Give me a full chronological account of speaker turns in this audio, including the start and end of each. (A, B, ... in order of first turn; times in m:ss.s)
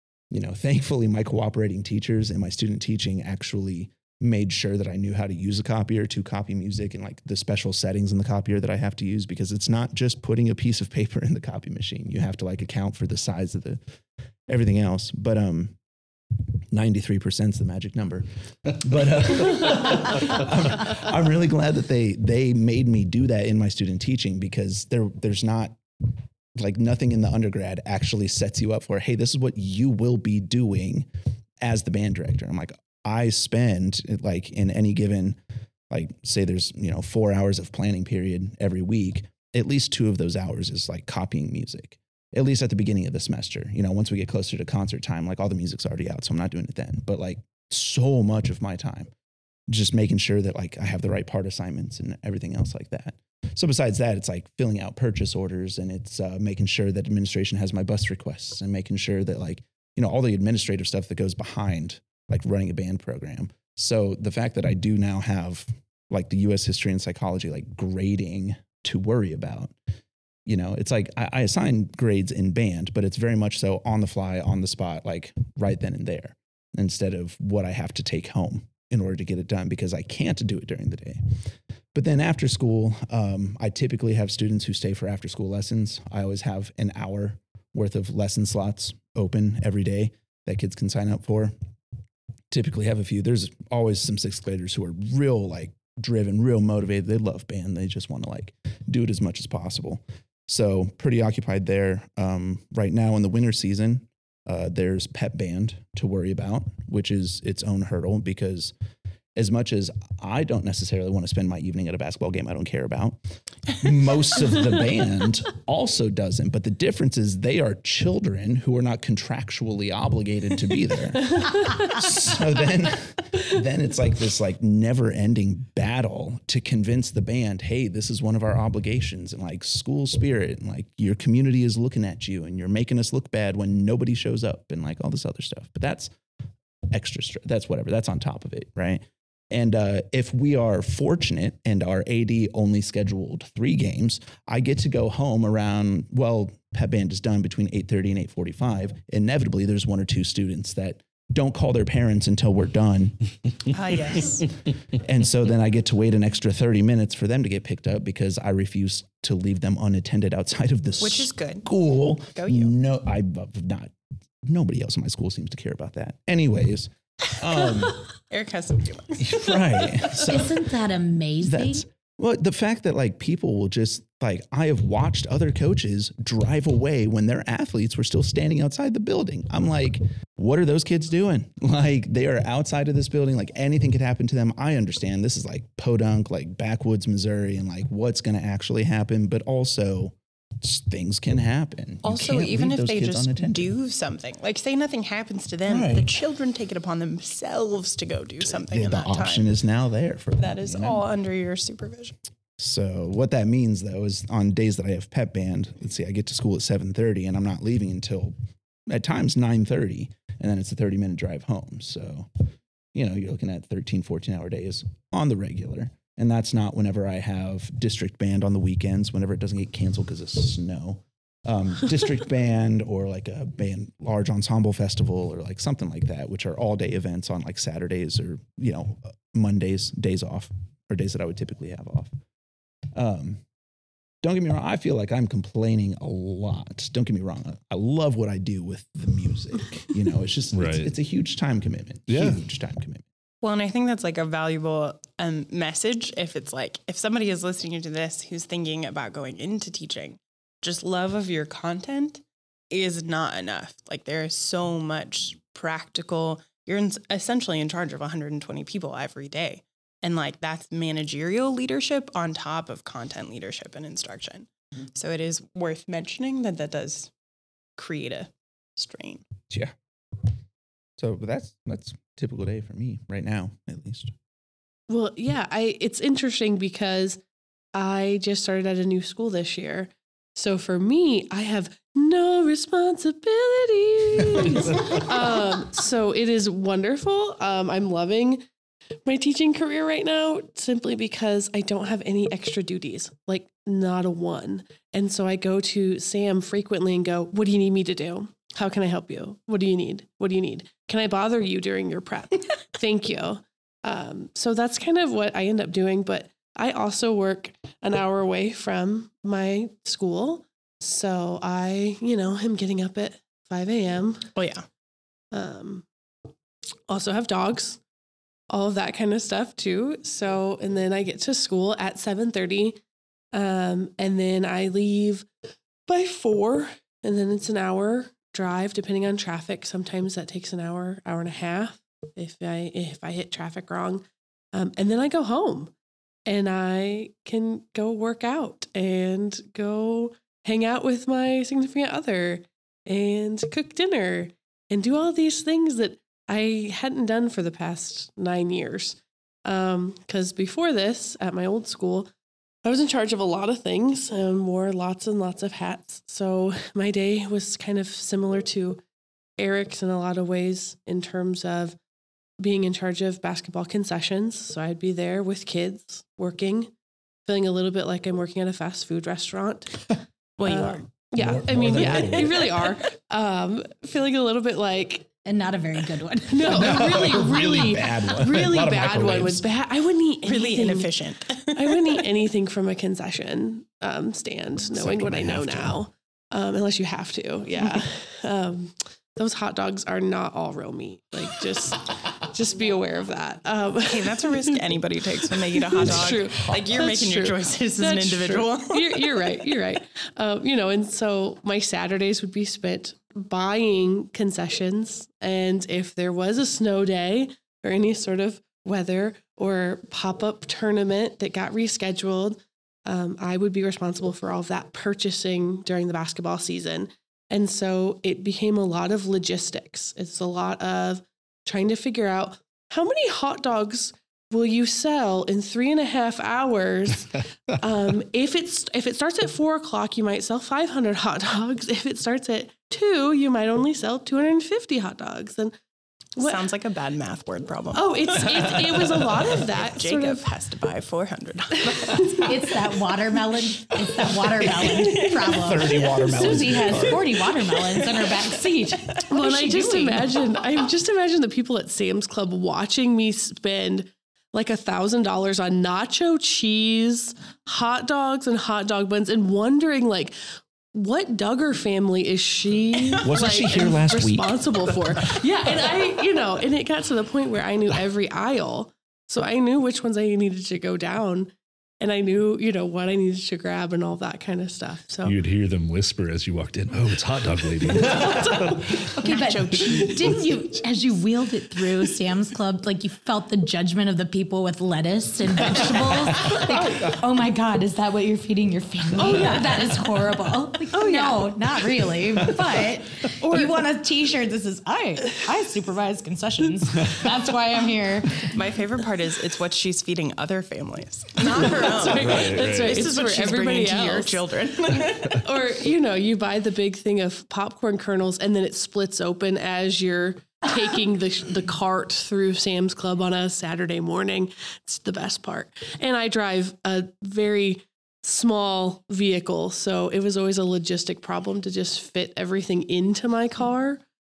0:00.3-0:13.8 A
0:14.5-0:15.8 A
0:16.3-0:31.1 A
0:31.6-0:49.1 A
0:49.7-1:09.8 A
1:10.4-1:21.3 A
1:21.9-1:31.5 A
1:32.5-1:48.7 A
1:49.4-2:16.1 A
2:01.4-2:01.9 B
2:16.9-2:33.3 A
2:33.7-2:34.5 C
2:34.9-2:43.9 A
2:41.0-2:41.7 C
2:42.3-2:42.7 C
2:44.4-2:48.1 A
2:47.9-2:50.2 C
2:49.1-2:50.6 A
2:50.3-2:51.8 D
2:51.4-3:13.7 A
3:12.0-3:19.5 C
3:15.7-3:16.1 A
3:18.4-3:21.0 A
3:20.4-3:22.1 C
3:22.6-3:28.4 A
3:28.9-3:52.1 A
3:52.9-3:53.4 A
3:54.2-4:03.0 A
4:00.5-4:00.9 E
4:02.1-4:02.4 E
4:03.4-4:27.1 C
4:27.8-4:29.2 C
4:29.5-4:30.3 A
4:31.0-4:34.1 A
4:34.9-4:37.2 B
4:37.7-4:48.5 B
4:49.0-5:14.3 B
5:14.3-5:14.6 C
5:15.3-5:15.8 B
5:16.9-5:17.8 B
5:18.5-5:22.8 B
5:23.3-5:25.3 B
5:25.9-5:35.7 B
5:36.2-5:52.1 B
5:52.6-5:58.8 B
5:59.4-6:01.8 B
6:02.4-6:06.7 B
6:07.2-6:15.1 B
6:10.4-6:10.8 C
6:11.2-6:12.5 A
6:11.7-6:12.6 C
6:15.2-6:17.1 D
6:16.3-6:20.9 B
6:16.5-6:19.4 A
6:20.2-6:22.0 C
6:21.5-6:34.6 B
6:24.7-6:25.8 A
6:33.8-6:39.1 C
6:35.6-7:15.5 B
7:16.2-7:16.4 B
7:16.2-7:18.5 C
7:17.7-7:20.2 B
7:19.3-7:22.2 C
7:21.7-7:22.3 B
7:22.1-7:30.0 D
7:24.6-7:27.5 A
7:29.1-7:40.1 B
7:29.1-7:30.0 C
7:40.7-7:55.2 B
7:43.0-7:44.4 A
7:55.0-7:59.0 E
7:59.0-8:00.3 C
7:59.0-8:18.4 D
7:59.7-8:00.1 E
8:10.7-8:11.3 C
8:13.2-8:13.5 C
8:18.2-8:25.2 C
8:21.2-8:43.8 B
8:21.9-8:22.8 E